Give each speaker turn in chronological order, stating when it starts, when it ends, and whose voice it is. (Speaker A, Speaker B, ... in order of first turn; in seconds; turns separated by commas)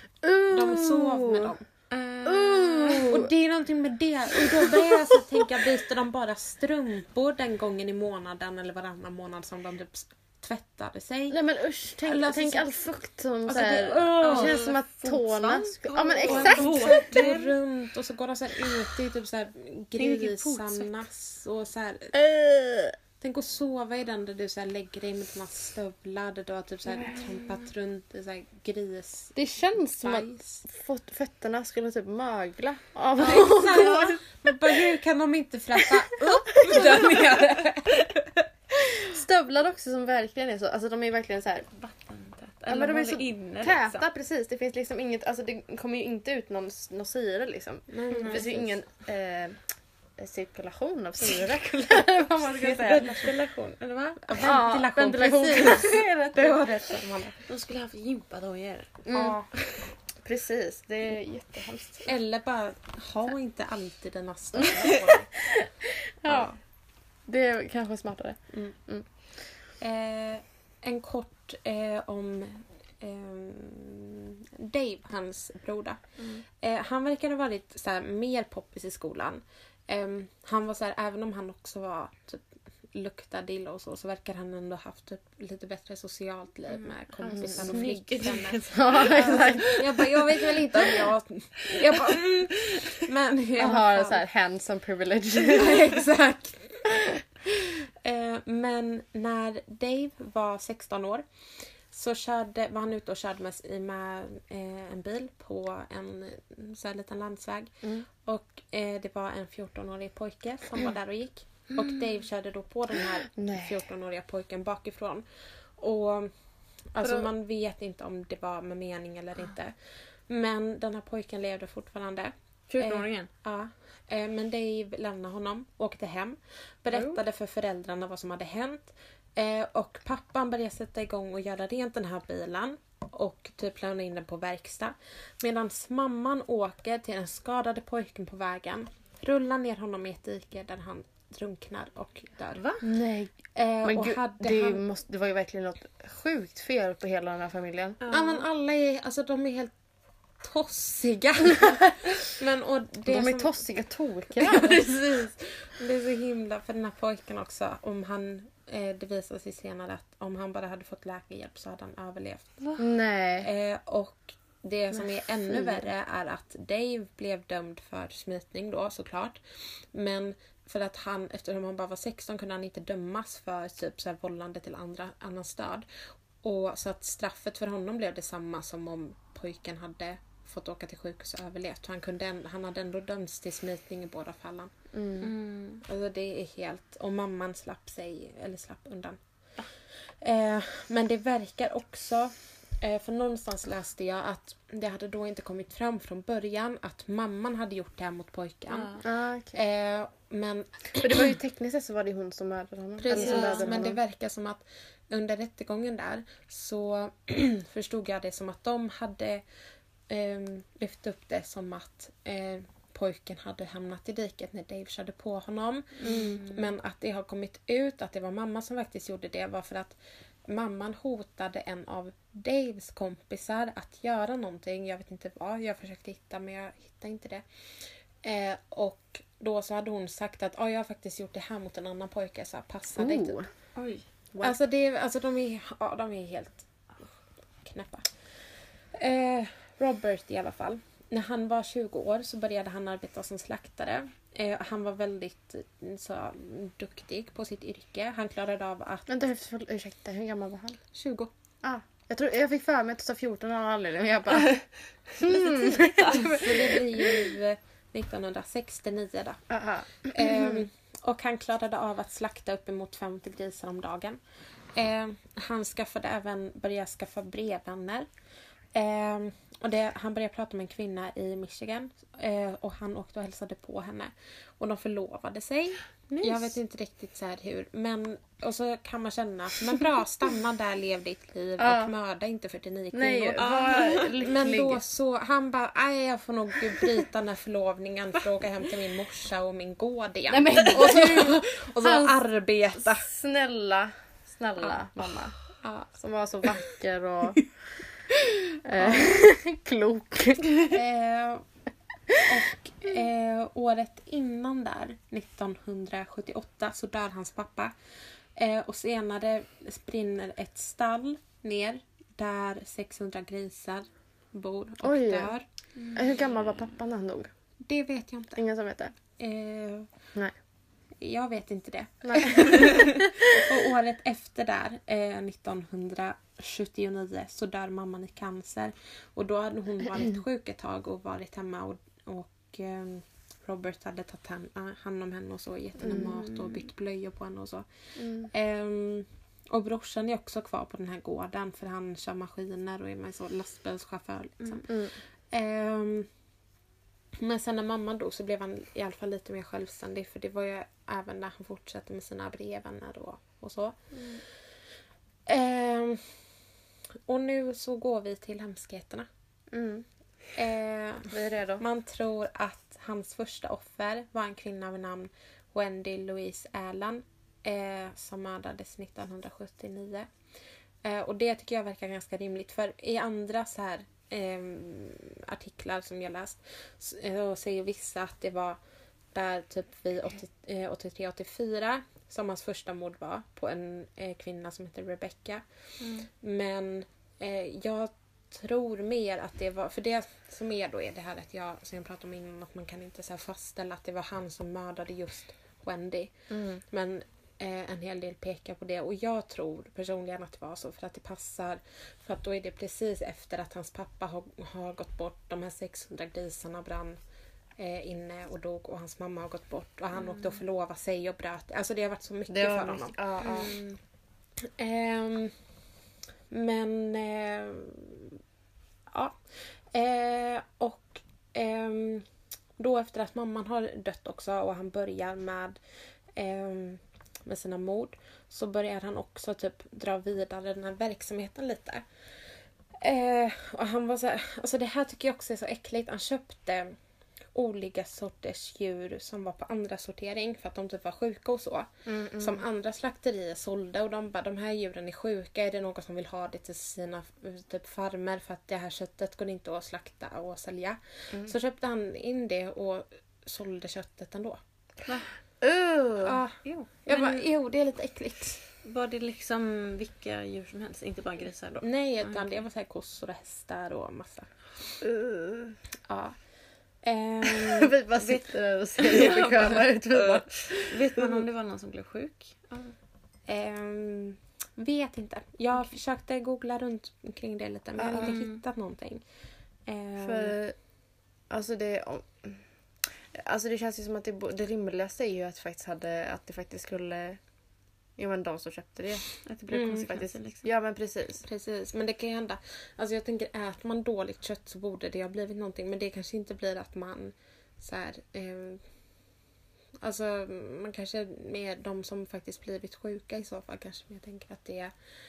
Speaker A: 0.2-1.5, Speaker B: 0.5-1.6, Speaker C: 1.9-3.1, Speaker A: 2.2-3.3, Speaker B: 2.9-11.4, Speaker A: 4.4-4.8, Speaker A: 11.3-17.0, Speaker B: 12.0-12.8, Speaker B: 13.5-22.1, Speaker C: 14.2-14.7, Speaker C: 15.9-17.6, Speaker C: 19.9-20.9, Speaker A: 22.1-22.9, Speaker B: 23.2-29.4, Speaker C: 27.1-27.6, Speaker A: 29.3-34.5, Speaker B: 30.0-30.6, Speaker B: 33.2-38.5, Speaker A: 36.5-37.1, Speaker A: 38.8-41.7, Speaker C: 41.7-44.0, Speaker A: 42.7-53.1, Speaker B: 47.9-48.7, Speaker C: 48.1-48.5, Speaker B: 52.5-57.4, Speaker C: 53.0-53.5, Speaker A: 54.4-56.6, Speaker C: 57.5-59.0, Speaker A: 59.0-62.1, Speaker B: 59.1-59.5, Speaker B: 62.0-65.5, Speaker A: 64.5-64.8, Speaker A: 65.3-66.5, Speaker B: 66.3-66.5, Speaker A: 67.2-69.1, Speaker B: 68.5-68.8, Speaker B: 69.6-94.2, Speaker C: 86.7-90.1, Speaker A: 87.2-87.8, Speaker A: 88.7-90.0, Speaker C: 91.7-92.0, Speaker A: 93.6-96.0, Speaker B: 95.4-96.9, Speaker B: 98.0-142.9, Speaker A: 113.3-113.8, Speaker C: 122.7-123.3, Speaker C: 142.6-142.8, Speaker A: 142.8-148.0, Speaker B: 143.5-144.8, Speaker C: 148.0-148.4, Speaker B: 148.1-149.8, Speaker B: 150.4-153.6, Speaker A: 153.1-154.9, Speaker B: 154.4-162.7, Speaker A: 162.8-163.5, Speaker B: 163.4-185.3, Speaker A: 165.5-165.8, Speaker A: 184.9-185.2, Speaker C: 185.2-185.8, Speaker B: 185.8-201.3, Speaker C: 198.7-199.0, Speaker A: 199.0-199.6, Speaker A: 200.9-204.0, Speaker B: 203.0-209.4, Speaker C: 203.1-203.7, Speaker B: 210.1-233.4, Speaker A: 216.0-216.4, Speaker C: 216.1-216.5, Speaker A: 233.0-233.5, Speaker C: 233.7-234.0, Speaker B: 234.4-236.7, Speaker B: 237.6-249.1, Speaker A: 249.1-250.8, Speaker B: 250.9-251.3, Speaker A: 251.6-257.0, Speaker C: 255.5-256.6, Speaker B: 256.1-259.4, Speaker A: 259.5-260.6, Speaker B: 260.1-264.2, Speaker B: 264.7-268.1, Speaker B: 268.7-293.1, Speaker C: 276.1-276.5, Speaker A: 281.6-281.9, Speaker A: 282.9-284.8, Speaker C: 283.4-284.1, Speaker A: 290.3-292.1, Speaker A: 292.8-297.9, Speaker B: 295.6-295.9, Speaker A: 298.6-300.8, Speaker B: 298.8-299.1, Speaker B: 300.7-301.4, Speaker B: 302.2-307.8, Speaker B: 308.3-315.4, Speaker A: 314.8-315.3, Speaker C: 315.8-316.2, Speaker A: 315.9-317.3, Speaker B: 317.6-318.4, Speaker A: 318.4-318.9, Speaker B: 319.2-319.9, Speaker B: 321.0-346.1, Speaker A: 322.0-323.3, Speaker A: 335.8-336.1, Speaker A: 337.9-338.3, Speaker A: 344.6-345.0, Speaker B: 347.1-354.7, Speaker B: 355.2-356.3, Speaker B: 357.1-359.1, Speaker A: 359.5-359.9, Speaker B: 360.3-370.1, Speaker A: 361.1-361.6, Speaker B: 370.8-378.6, Speaker B: 379.1-407.0, Speaker C: 385.8-386.1, Speaker A: 396.3-396.6, Speaker B: 407.6-413.6, Speaker A: 412.3-413.5, Speaker C: 413.2-413.8, Speaker B: 414.4-415.5, Speaker B: 416.3-418.2, Speaker B: 418.9-425.6, Speaker B: 426.1-436.8, Speaker B: 437.3-454.4, Speaker A: 441.9-442.4, Speaker A: 455.4-456.2, Speaker B: 456.0-458.4, Speaker C: 456.4-457.2, Speaker C: 458.6-462.3, Speaker B: 461.6-464.8, Speaker A: 464.8-465.6, Speaker B: 465.9-467.7, Speaker A: 467.2-470.6, Speaker C: 468.8-472.7, Speaker B: 470.7-471.3, Speaker B: 473.2-480.3, Speaker A: 477.8-478.1, Speaker C: 478.0-478.4, Speaker A: 480.0-480.7, Speaker A: 481.3-487.2, Speaker A: 487.9-491.2, Speaker C: 489.2-490.4, Speaker B: 489.5-489.9, Speaker B: 491.2-498.7, Speaker B: 499.8-504.7